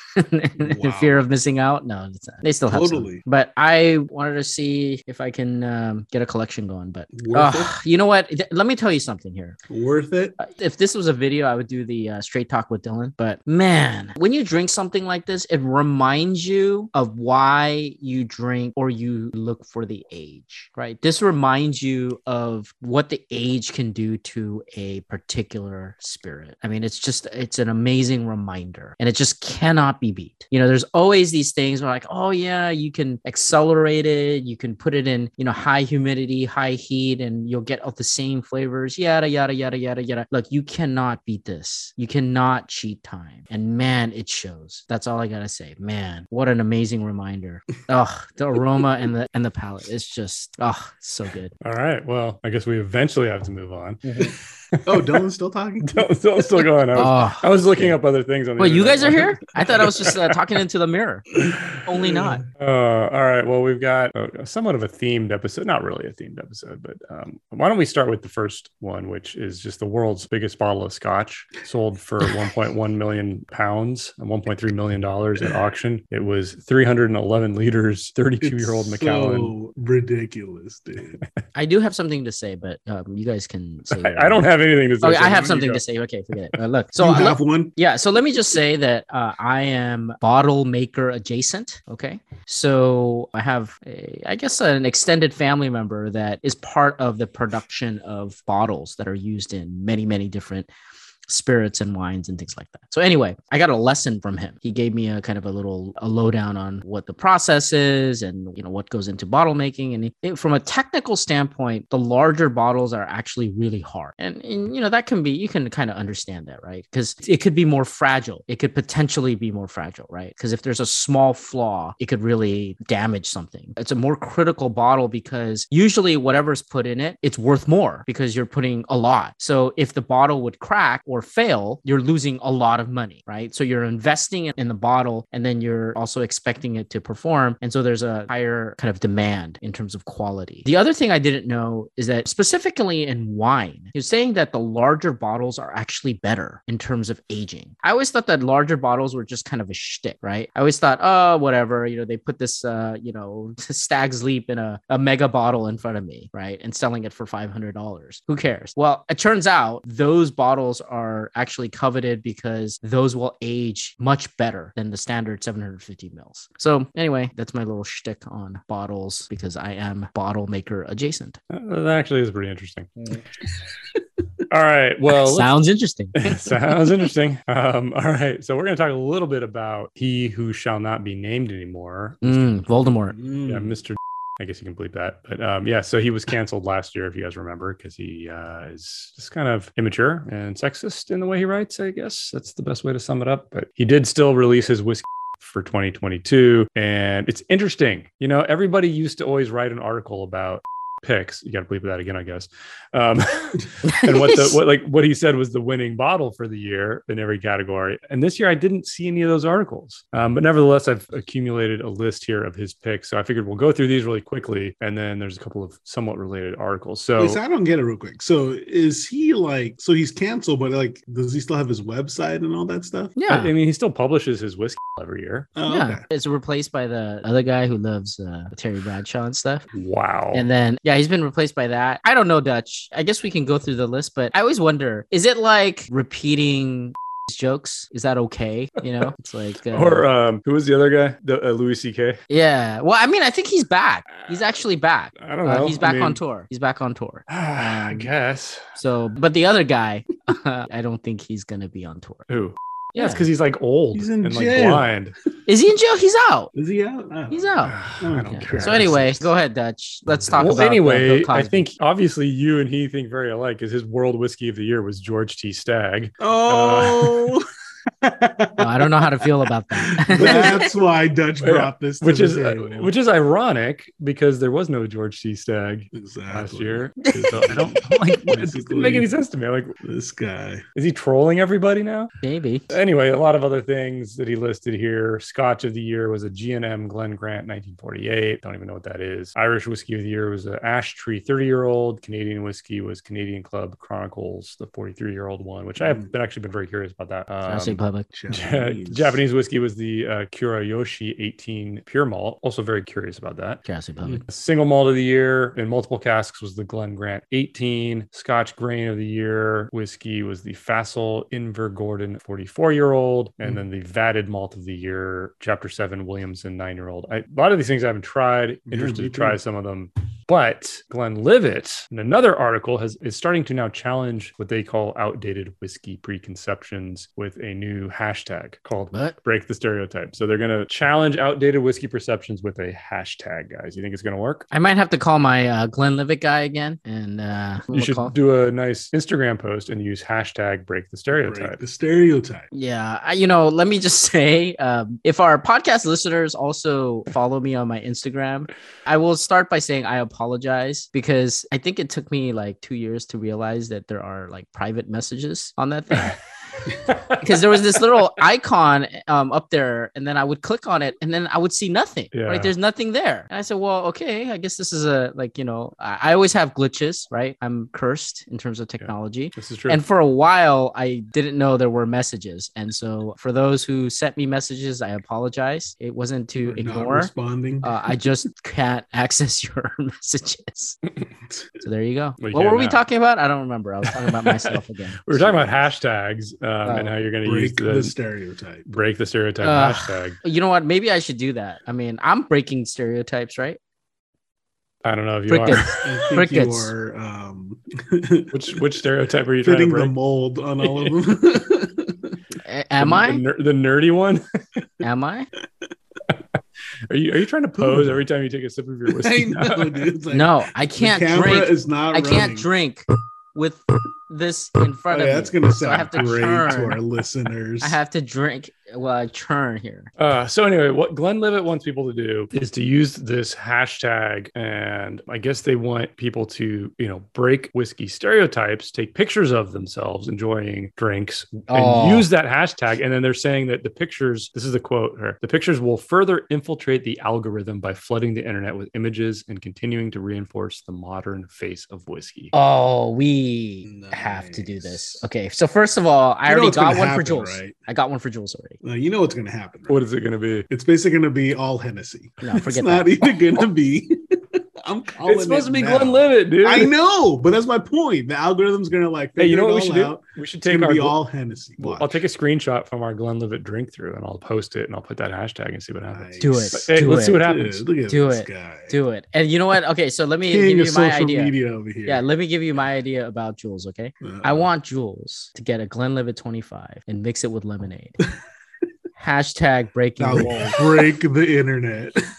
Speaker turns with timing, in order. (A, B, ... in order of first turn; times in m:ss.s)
0:00.2-0:09.6 A
0:00.6-0:01.2 B
0:02.7-0:03.2 B
0:07.1-0:07.7 B
0:09.7-0:10.4 B
0:10.4-0:51.5 A
0:51.6-0:55.1 C
0:54.0-0:54.3 A
0:54.8-0:56.1 B
0:55.8-1:00.3 C
0:56.9-0:58.0 A
0:58.6-1:01.3 A
1:01.4-1:02.4 B
1:01.8-1:02.4 A
1:02.6-1:19.5 C
1:18.4-1:21.2 B
1:21.5-1:40.7 A
1:23.9-1:25.8 C
1:27.0-1:27.7 B
1:41.3-2:51.4 A
2:51.5-2:52.9 C
2:54.5-2:55.5 C
2:55.3-2:56.2 A
2:56.2-3:02.6 C
3:02.2-3:03.2 A
3:03.1-3:03.8 B
3:03.4-3:37.4 C
3:23.9-3:24.6 A
3:37.2-3:43.1 B
3:43.2-3:43.5 A
3:43.3-3:45.5 C
3:45.6-3:46.0 B
3:45.7-3:49.6 A
3:49.7-3:50.5 C
3:50.3-4:00.1 A
3:59.7-4:02.2 C
4:02.3-4:08.1 A
4:04.1-4:04.6 C
4:05.2-4:06.2 C
4:07.3-4:08.6 C
4:08.8-4:12.3 A
4:12.3-4:15.1 C
4:12.9-4:13.2 A
4:13.9-4:14.9 B
4:15.5-4:16.5 A
4:16.5-4:19.2 B
4:17.3-4:21.6 A
4:17.6-4:19.2 C
4:20.3-4:27.4 C
4:26.2-4:27.4 B
4:28.0-4:29.2 B
4:28.6-4:30.6 A
4:30.1-4:32.9 B
4:30.1-4:30.6 C
4:31.4-4:39.7 C
4:35.9-4:39.1 B
4:37.0-4:37.7 A
4:39.8-4:40.6 B
4:40.7-4:42.1 C
4:42.2-4:42.8 A
4:42.7-5:03.6 C
4:55.8-4:56.1 B
4:57.4-4:58.1 A
4:58.1-4:59.2 B
5:03.6-5:04.2 A
5:04.2-5:34.5 C
5:18.7-5:19.4 B
5:34.5-5:38.1 A
5:37.7-5:41.6 C
5:41.1-5:42.5 B
5:42.5-5:56.1 A
5:56.7-5:57.3 C
5:57.2-6:17.1 A
6:02.1-6:02.5 C
6:08.8-6:09.8 C
6:16.4-6:17.7 B
6:17.6-6:20.8 A
6:21.6-6:25.7 A
6:22.2-6:22.8 C
6:24.0-6:28.0 C
6:26.6-6:27.0 A
6:27.2-6:28.7 B
6:28.7-6:30.2 C
6:29.4-6:33.6 A
6:34.8-6:35.7 C
6:35.3-6:36.7 A
6:35.8-6:38.3 B
6:38.3-6:39.9 C
6:39.4-6:42.2 B
6:40.6-6:40.9 C
6:42.4-6:43.2 A
6:42.8-6:44.2 C
6:44.8-6:45.3 A
6:46.1-6:46.4 C
6:46.9-6:49.9 C
6:47.6-6:48.0 B
6:48.9-6:52.5 B
6:50.1-6:56.8 A
6:54.9-6:57.8 B
6:57.6-6:59.9 A
7:00.0-7:22.3 C
7:11.5-7:12.1 A
7:22.3-7:28.6 A
7:23.6-7:25.1 B
7:26.2-7:27.5 B
7:28.6-7:29.8 B
7:29.7-7:30.4 C
7:30.5-7:34.0 B
7:32.2-7:33.1 A
7:34.6-7:42.0 B
7:35.0-7:36.7 C
7:39.2-7:40.9 C
7:41.6-7:47.6 C
7:45.9-7:48.8 B
7:46.2-7:47.3 A
7:47.8-7:58.0 A
7:50.2-7:52.0 B
7:54.0-7:54.5 B
7:59.0-8:00.9 A
8:00.0-8:02.0 B